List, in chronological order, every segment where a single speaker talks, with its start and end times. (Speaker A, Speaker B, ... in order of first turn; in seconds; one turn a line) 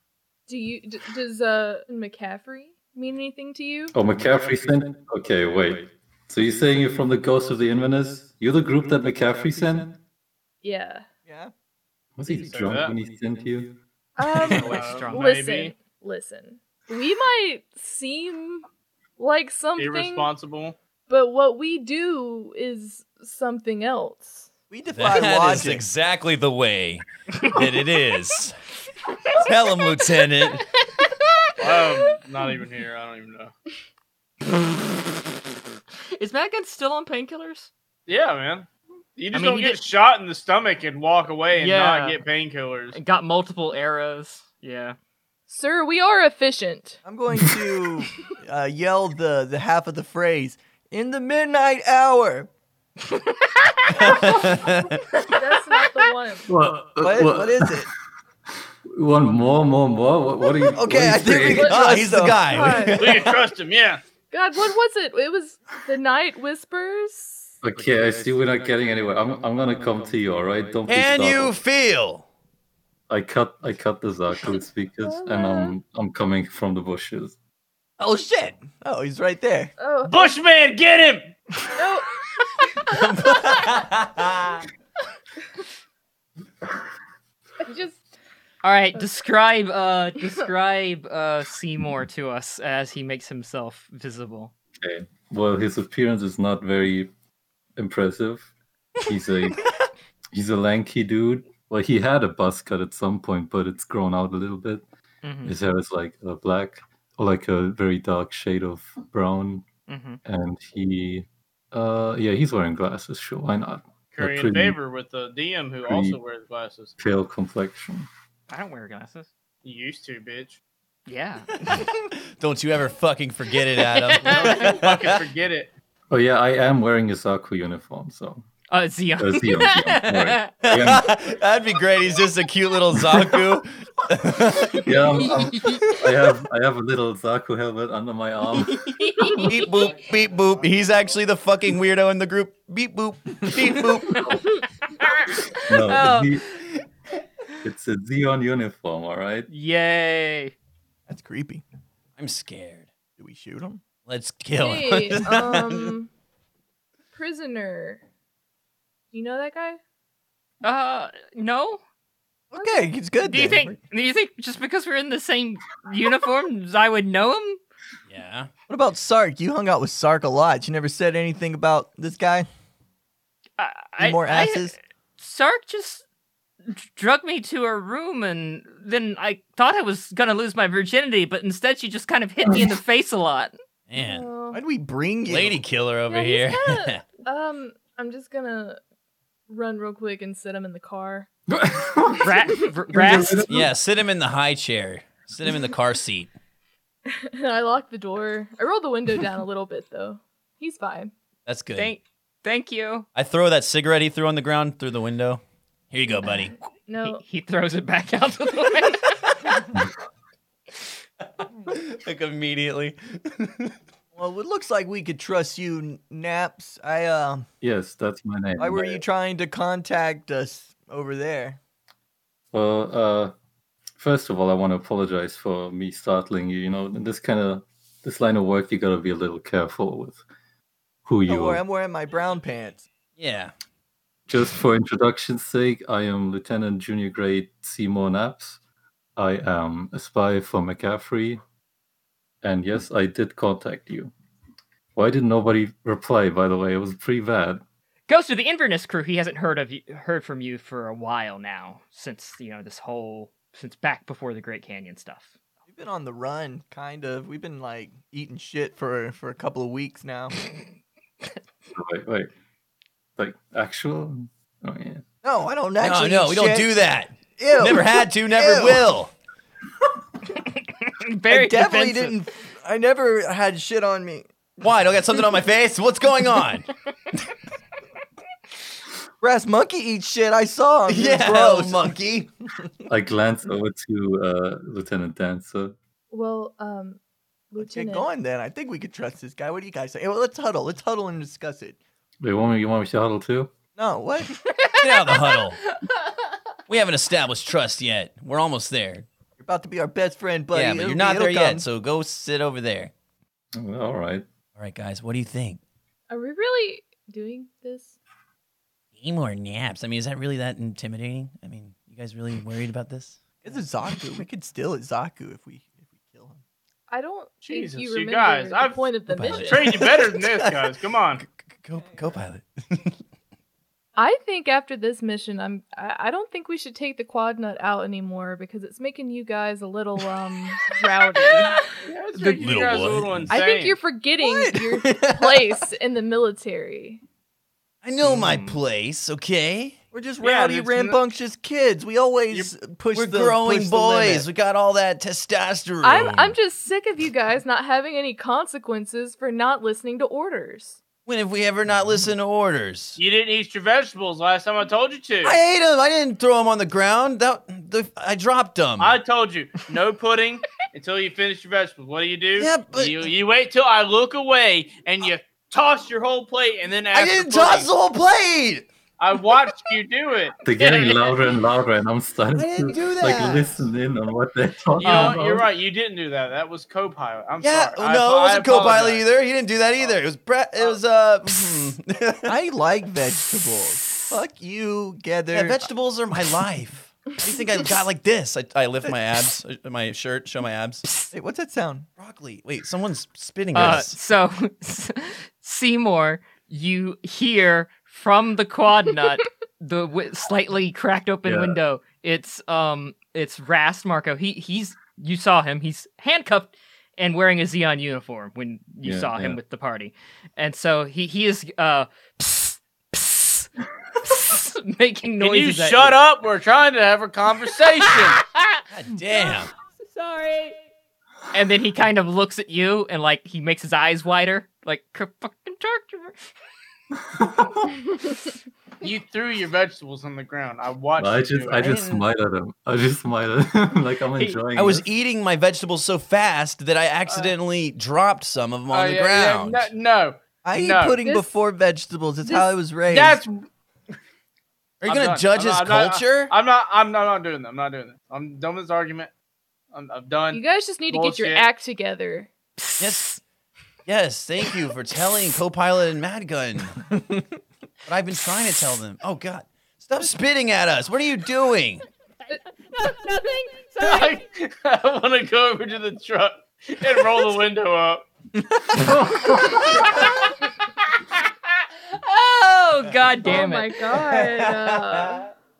Speaker A: 0.5-3.9
Speaker B: 3.9-10.0
Speaker A: 10.6-11.1
Speaker C: 11.3-11.5
Speaker B: 12.2-13.8
Speaker D: 12.3-13.0
Speaker A: 14.2-18.6
Speaker D: 14.4-15.7
Speaker E: 14.5-15.3
Speaker A: 19.2-20.3
Speaker D: 19.8-20.8
Speaker A: 21.1-24.5
Speaker C: 24.7-25.9
Speaker F: 24.9-28.6
Speaker F: 29.3-30.7
Speaker E: 30.8-31.5
Speaker D: 31.6-33.5
Speaker E: 36.1-37.7
Speaker D: 38.1-43.0
Speaker E: 39.3-39.8
Speaker E: 41.5-42.2
Speaker E: 42.9-45.0
Speaker A: 45.5-47.0
Speaker C: 47.0-52.5
Speaker E: 53.1-54.7
Speaker F: 54.0-55.0
Speaker A: 55.3-56.5
Speaker B: 56.5-57.9
Speaker C: 57.0-57.9
Speaker B: 58.9-61.8
Speaker F: 60.8-63.4
Speaker C: 60.8-62.5
Speaker A: 61.6-63.1
Speaker D: 62.9-64.0
Speaker A: 64.3-67.5
Speaker B: 67.6-71.6
Speaker F: 70.9-72.3
Speaker B: 73.1-77.4
Speaker A: 74.6-75.8
Speaker C: 78.0-79.7
Speaker A: 79.8-80.4
Speaker D: 80.0-81.4
Speaker A: 81.7-82.1
Speaker A: 82.6-83.5
Speaker F: 82.9-84.6
Speaker A: 87.6-88.0
Speaker E: 88.6-94.5
Speaker B: 94.8-97.1
Speaker B: 97.8-98.5
Speaker B: 99.1-99.7
Speaker B: 100.3-104.8
Speaker E: 105.2-105.5
Speaker B: 105.4-109.7
Speaker E: 109.9-110.2
Speaker B: 110.2-114.8
Speaker D: 114.1-117.0
Speaker B: 115.8-116.2
Speaker B: 117.0-118.1
Speaker E: 118.5-119.3
Speaker D: 119.6-120.6
Speaker E: 121.1-121.9
Speaker F: 121.7-125.2
Speaker E: 123.8-124.4
Speaker D: 124.2-125.7
Speaker B: 126.1-128.4
Speaker E: 128.7-130.5
Speaker B: 129.2-131.1
Speaker F: 130.6-135.0
Speaker B: 134.8-139.0
Speaker E: 135.2-135.9
Speaker E: 138.6-139.7
Speaker F: 139.3-144.4
Speaker D: 139.8-140.7
Speaker E: 145.0-145.5
Speaker B: 145.7-146.5
Speaker A: 145.9-146.3
Speaker B: 147.6-149.5
Speaker E: 149.5-150.5
Speaker C: 151.1-151.6
Speaker F: 152.2-152.9
Speaker C: 153.2-153.8
Speaker F: 154.1-156.0
Speaker A: 154.6-156.1
Speaker A: 157.1-158.0
Speaker A: 159.1-159.8
Speaker E: 160.6-161.8
Speaker C: 162.5-163.8
Speaker A: 162.6-162.9
Speaker E: 163.2-167.6
Speaker F: 168.1-168.5
Speaker C: 168.7-172.5
Speaker E: 173.6-176.0
Speaker C: 174.0-174.8
Speaker E: 176.7-183.5
Speaker F: 183.9-184.3
Speaker A: 184.0-184.6
Speaker C: 184.5-185.6
Speaker F: 185.3-187.0
Speaker A: 186.1-188.8
Speaker A: 189.5-191.3
Speaker B: 191.6-192.3
Speaker E: 192.2-193.5
Speaker B: 192.9-193.7
Speaker F: 193.5-196.3
Speaker A: 197.1-201.1
Speaker F: 201.5-201.9
Speaker E: 201.8-203.1
Speaker F: 203.2-206.6
Speaker A: 206.2-207.2
Speaker E: 207.0-209.3
Speaker F: 211.7-213.8
Speaker C: 214.2-217.5
Speaker B: 217.6-219.0
Speaker C: 218.6-221.6
Speaker B: 222.5-223.3
Speaker B: 224.0-230.2
Speaker B: 231.1-231.6
Speaker C: 231.3-232.9
Speaker F: 233.2-233.5
Speaker B: 234.3-238.6
Speaker B: 239.2-241.4
Speaker B: 242.4-244.1
Speaker B: 245.0-247.6
Speaker E: 248.1-255.3
Speaker C: 255.7-260.4
Speaker B: 261.7-262.3
Speaker B: 263.2-265.1
Speaker C: 265.2-266.8
Speaker F: 265.8-269.1
Speaker C: 267.3-269.0
Speaker E: 270.4-272.1
Speaker C: 271.3-274.3
Speaker F: 274.6-276.7
Speaker C: 279.2-282.0
Speaker F: 280.9-282.3
Speaker B: 282.9-285.8
Speaker A: 286.1-287.0
Speaker A: 287.5-288.1
Speaker C: 287.6-291.8
Speaker B: 292.2-293.5
Speaker C: 293.8-294.4
Speaker E: 294.6-296.2
Speaker F: 294.8-295.6
Speaker F: 296.7-299.1
Speaker C: 299.4-301.7
Speaker F: 300.5-302.9
Speaker B: 303.6-304.3
Speaker F: 304.6-305.6
Speaker A: 306.1-308.0
Speaker F: 309.0-313.2
Speaker C: 313.4-316.4
Speaker A: 316.9-320.0
Speaker D: 317.4-321.2
Speaker F: 319.1-320.1
Speaker F: 321.6-323.0
Speaker C: 321.8-322.1
Speaker A: 324.0-331.7
Speaker D: 331.8-333.8
Speaker F: 332.2-333.3
Speaker A: 333.3-337.0
Speaker C: 334.2-335.4
Speaker F: 334.9-335.2
Speaker F: 337.8-339.8
Speaker E: 338.1-338.6
Speaker C: 339.9-344.3
Speaker D: 340.2-341.0
Speaker F: 342.9-346.4
Speaker A: 345.8-350.8
Speaker F: 351.1-353.0
Speaker D: 353.0-355.4
Speaker F: 355.2-359.0
Speaker D: 358.8-367.7
Speaker F: 362.4-363.1
Speaker F: 366.9-368.7
Speaker D: 369.0-370.4
Speaker B: 370.4-375.5
Speaker E: 370.5-371.2
Speaker F: 372.4-373.7
Speaker D: 374.8-379.1
Speaker E: 374.8-375.2
Speaker F: 377.4-382.4
Speaker C: 382.2-385.7
Speaker F: 385.3-390.9
Speaker C: 391.1-391.9
Speaker F: 392.0-394.0
Speaker E: 393.5-413.5
Speaker B: 401.3-401.6
Speaker B: 408.8-409.4
Speaker E: 414.0-416.0
Speaker D: 415.2-418.2
Speaker E: 418.3-418.6
Speaker F: 418.7-419.5
Speaker E: 419.8-420.6
Speaker E: 421.3-426.2
Speaker B: 427.1-427.7
Speaker D: 428.8-431.8
Speaker B: 431.0-434.9
Speaker F: 431.6-432.0
Speaker F: 434.6-439.7
Speaker D: 437.1-437.3
Speaker D: 438.7-441.0
Speaker C: 440.4-443.2
Speaker A: 441.0-441.3
Speaker D: 442.9-443.5
Speaker F: 444.8-446.3
Speaker D: 444.9-449.1
Speaker D: 449.7-451.5
Speaker A: 450.3-452.3
Speaker E: 452.6-453.2
Speaker F: 452.8-453.1
Speaker F: 453.9-456.9
Speaker F: 457.9-461.9
Speaker E: 462.8-464.1
Speaker D: 463.8-468.1
Speaker C: 468.5-468.8
Speaker B: 468.8-469.7
Speaker E: 469.4-470.4
Speaker E: 471.9-473.7
Speaker A: 473.2-475.3
Speaker F: 473.9-475.2